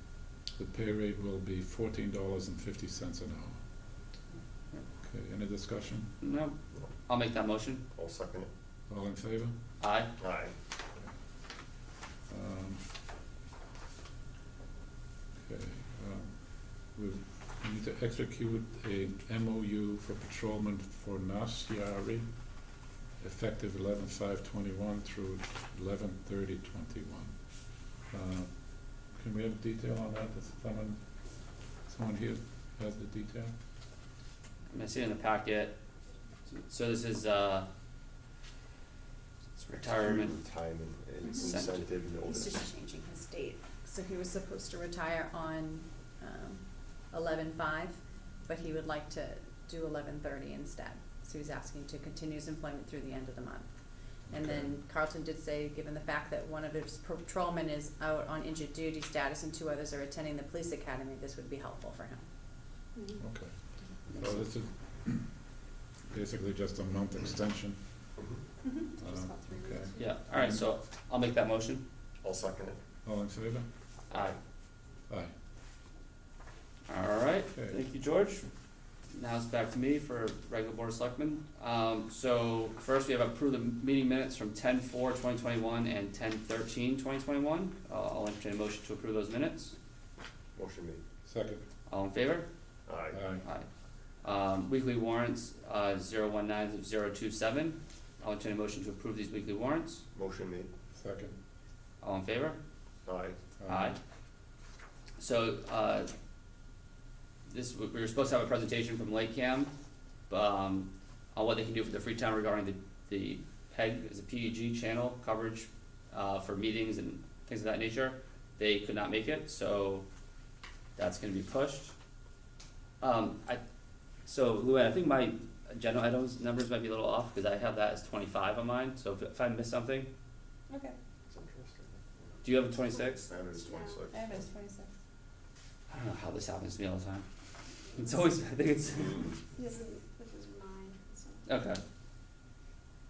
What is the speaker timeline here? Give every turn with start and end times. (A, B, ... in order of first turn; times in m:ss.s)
0:00.6-0:03.6 A
0:05.0-0:06.1 A
0:06.2-0:06.6 B
0:07.1-0:07.8 B
0:07.9-0:08.5 C
0:08.9-0:09.5 A
0:09.8-0:10.1 B
0:10.2-0:10.5 C
0:12.3-0:12.8 A
0:15.4-0:22.3 A
0:23.2-0:27.3 A
0:28.1-0:28.5 A
0:29.1-0:31.0 A
0:31.9-0:33.5 A
0:34.7-0:35.8 B
0:36.6-0:37.7 B
0:39.6-0:40.3 B
0:39.8-0:42.6 C
0:41.4-0:41.8 B
0:42.2-0:53.7 D
0:54.3-1:02.2 D
0:54.3-0:54.8 A
1:03.2-1:03.5 A
1:04.1-1:05.4 A
1:04.1-1:04.4 B
1:06.1-1:07.8 A
1:08.7-1:10.1 D
1:09.0-1:10.6 A
1:10.0-1:11.8 B
1:12.2-1:12.8 C
1:13.0-1:13.7 A
1:14.1-1:14.4 B
1:16.9-1:18.4 B
1:19.1-1:29.8 B
1:30.5-1:31.0 C
1:31.2-1:31.6 A
1:31.9-1:32.5 B
1:32.9-1:33.2 C
1:33.1-1:33.4 A
1:34.2-1:40.0 B
1:40.1-1:40.7 C
1:40.9-1:41.4 A
1:42.0-1:42.6 B
1:43.0-1:43.4 C
1:43.6-1:44.0 A
1:43.7-1:44.0 B
1:45.2-1:46.1 B
1:47.5-1:49.7 B
1:50.3-2:00.0 B
2:01.0-2:01.9 B
2:03.0-2:03.6 B
2:04.2-2:10.1 B
2:10.7-2:10.9 D
2:11.3-2:12.0 C
2:12.4-2:13.3 B
2:13.2-2:14.4 C
2:13.5-2:14.0 E
2:14.1-2:14.9 D
2:15.9-2:17.2 B
2:17.9-2:19.3 B
2:19.6-2:21.5 E
2:21.4-2:21.8 B